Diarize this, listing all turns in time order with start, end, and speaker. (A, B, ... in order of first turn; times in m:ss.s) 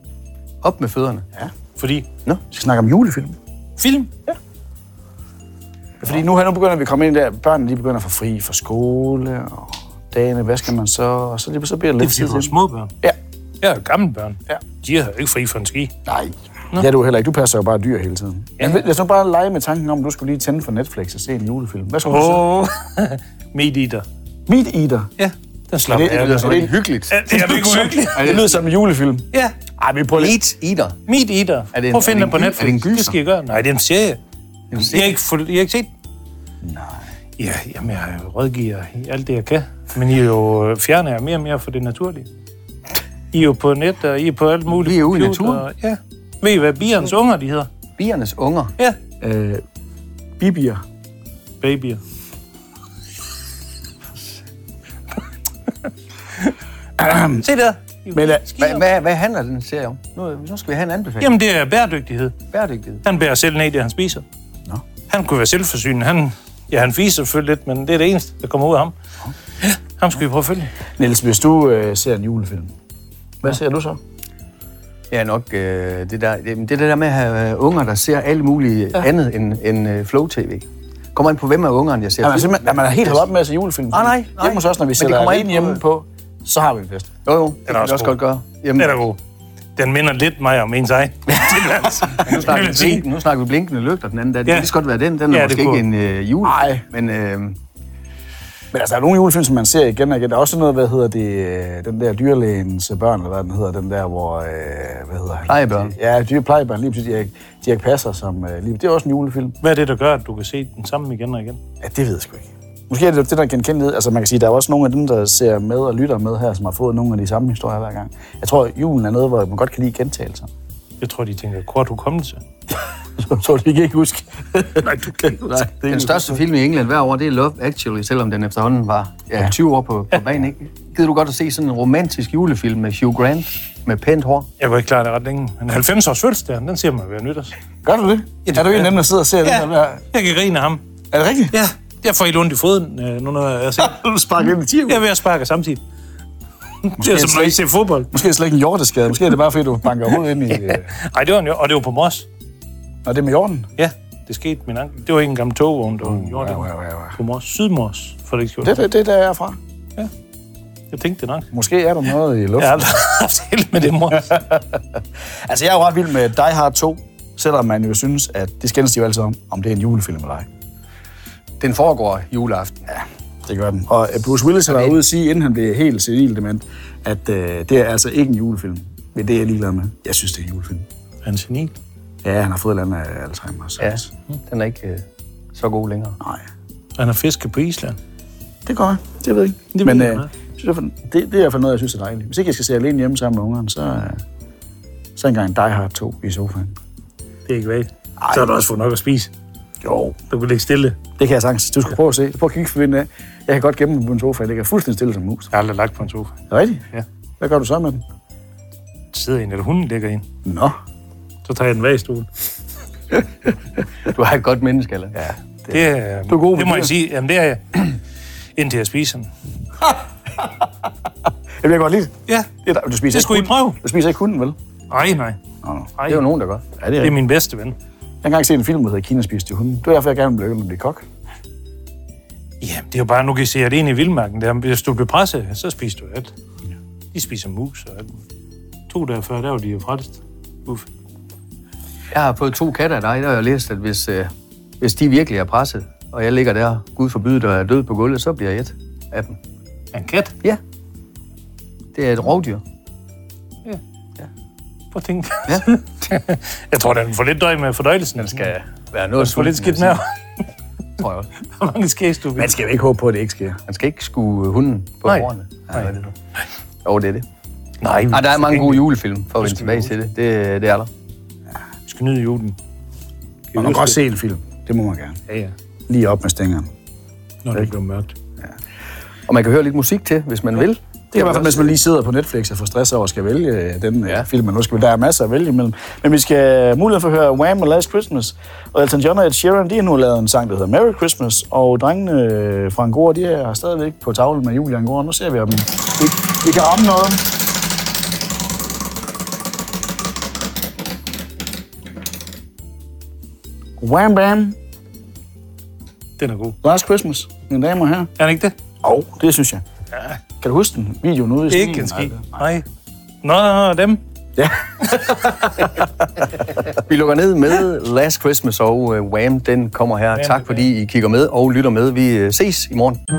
0:00.6-0:01.2 A
0:01.8-0:02.0 B
0:02.5-0:03.4 C
0:03.8-0:04.1 B
0:06.0-0:13.2 C
0:12.0-0:12.9 B
0:13.6-0:15.9 B
0:16.0-0:22.6 C
0:18.6-0:18.8 B
0:22.0-0:24.0 B
0:24.5-0:25.1 C
0:25.2-0:28.4 B
0:25.9-0:26.7 C
0:25.9-0:28.6 A
0:27.3-0:29.3 C
0:29.8-0:30.4 C
0:30.2-0:31.0 A
0:31.1-0:34.2 B
0:31.7-0:33.2 A
0:34.7-0:35.2 A
0:34.8-0:35.9 B
0:36.6-0:37.0 C
0:37.4-0:42.3 B
0:43.3-0:47.7 B
0:44.7-0:45.6 A
0:48.0-0:48.7 A
0:49.2-0:49.6 C
0:50.4-0:50.8 C
0:51.6-0:52.0 B
0:57.0-0:57.4 C
0:57.1-0:58.8 B
0:58.1-0:58.5 C
0:58.5-1:01.4 A
1:01.2-1:02.3 B
1:02.5-1:03.0 A
1:03.0-1:04.2 B
1:05.1-1:08.9 B
1:09.6-1:10.7 B
1:11.0-1:12.7 C
1:13.4-1:14.0 C
1:15.1-1:23.2 A
1:22.2-1:27.1 C
1:23.9-1:25.8 A
1:27.2-1:29.0 A
1:27.7-1:28.2 B
1:28.8-1:29.2 B
1:29.8-1:33.0 B
1:32.1-1:37.6 A
1:35.3-1:35.8 B
1:36.4-1:36.8 C
1:38.7-1:49.6 C
1:45.5-1:45.9 A
1:49.6-1:51.6 B
1:51.8-2:00.5 C
2:01.0-2:02.4 B
2:03.2-2:06.4 C
2:04.9-2:05.6 B
2:05.9-2:14.5 A
2:14.6-2:17.5 B
2:17.8-2:20.0 C
2:18.4-2:20.8 B
2:21.1-2:21.6 C
2:21.5-2:24.0 B
2:23.8-2:25.1 C
2:24.8-2:25.8 B
2:26.8-2:28.1 B
2:27.0-2:30.9 C
2:30.5-2:32.2 B
2:33.0-2:33.7 C
2:33.8-2:38.8 B
2:36.0-2:37.2 C
2:38.6-2:39.6 C
2:40.9-2:41.5 B
2:41.5-2:43.0 C
2:42.6-2:44.5 B
2:45.5-2:50.4 C
2:51.6-2:52.8 A
2:52.9-3:00.8 C
2:54.7-2:55.0 A
3:01.2-3:01.7 B
3:02.2-3:04.1 C
3:03.8-3:06.2 A
3:07.0-3:08.0 B
3:08.6-3:14.2 C
3:09.7-3:10.3 B
3:15.2-3:16.8 C
3:17.4-3:19.3 B
3:18.2-3:18.5 C
3:19.8-3:20.2 C
3:20.3-3:21.0 B
3:21.2-3:25.5 C
3:25.5-3:26.3 B
3:26.5-3:26.8 C
3:27.4-3:28.0 C
3:29.1-3:30.2 B
3:30.4-3:30.8 C
3:31.4-3:32.3 B
3:34.0-3:35.2 A
3:35.2-3:36.9 C
3:35.7-3:38.0 B
3:38.6-3:39.3 B
3:41.6-3:44.6 C
3:43.1-3:43.8 B
3:44.9-3:45.4 B
3:45.6-3:45.9 C
3:46.0-3:46.2 B
3:46.1-3:46.6 A
3:46.8-3:47.2 C
3:47.0-3:47.8 B
3:48.2-3:51.0 C
3:52.6-3:56.3 B
3:57.1-3:58.2 B
3:58.9-4:00.9 B
4:02.1-4:09.4 A
4:09.9-4:10.3 B
4:11.9-4:12.6 A
4:14.9-4:18.5 B
4:18.2-4:20.0 A
4:19.2-4:20.0 B
4:21.0-4:21.3 A
4:21.6-4:22.5 B
4:22.4-4:23.6 C
4:23.7-4:26.1 A
4:25.0-4:25.8 B
4:26.8-4:27.2 A
4:27.8-4:28.8 B
4:28.1-4:30.9 A
4:29.4-4:29.9 B
4:31.9-4:32.5 B
4:33.5-4:34.0 B
4:33.5-4:35.2 C
4:35.3-4:35.5 B
4:35.9-4:36.7 C
4:37.4-4:38.1 B
4:39.3-4:41.7 A
4:41.1-4:57.2 C
5:03.8-5:04.6 C
5:06.2-5:06.6 B
5:06.6-5:08.1 C
5:08.2-5:08.5 B
5:08.8-5:09.6 C
5:10.4-5:12.4 C
5:11.5-5:12.6 B
5:13.2-5:14.0 B
5:14.4-5:15.3 C
5:16.6-5:23.0 A
5:20.2-5:20.6 B